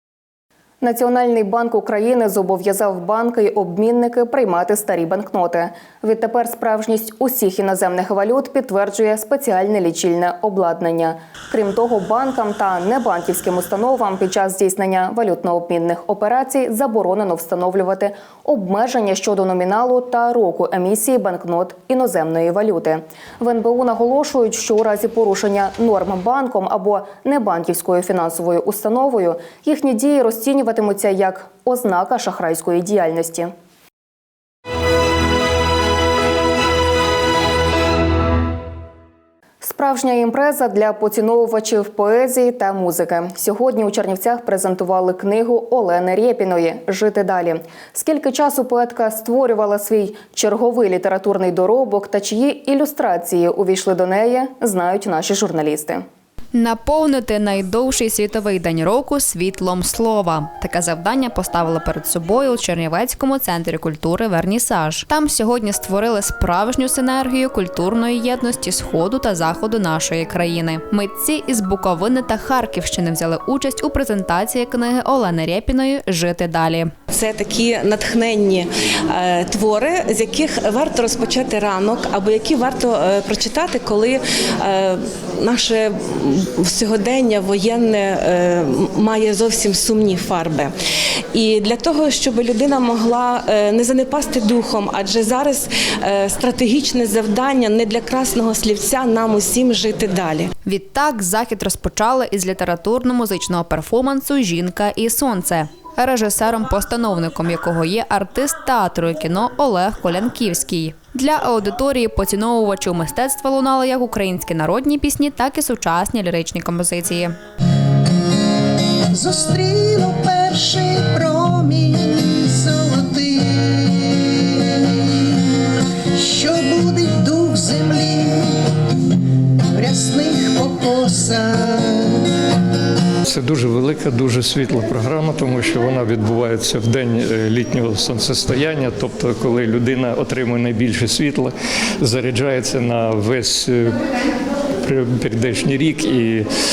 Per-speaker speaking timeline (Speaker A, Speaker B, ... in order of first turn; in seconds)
Speaker A: 0.8-33.5, 39.6-56.0
Speaker B: 56.5-76.9, 100.6-117.4
Speaker C: 77.1-78.7, 79.2-84.9, 85.4-85.8, 86.7-90.7, 91.3-100.4
Speaker D: 119.1-124.6, 126.1-128.5, 129.7-132.2
Speaker E: 133.3-141.5, 142.0-143.8, 144.8-146.4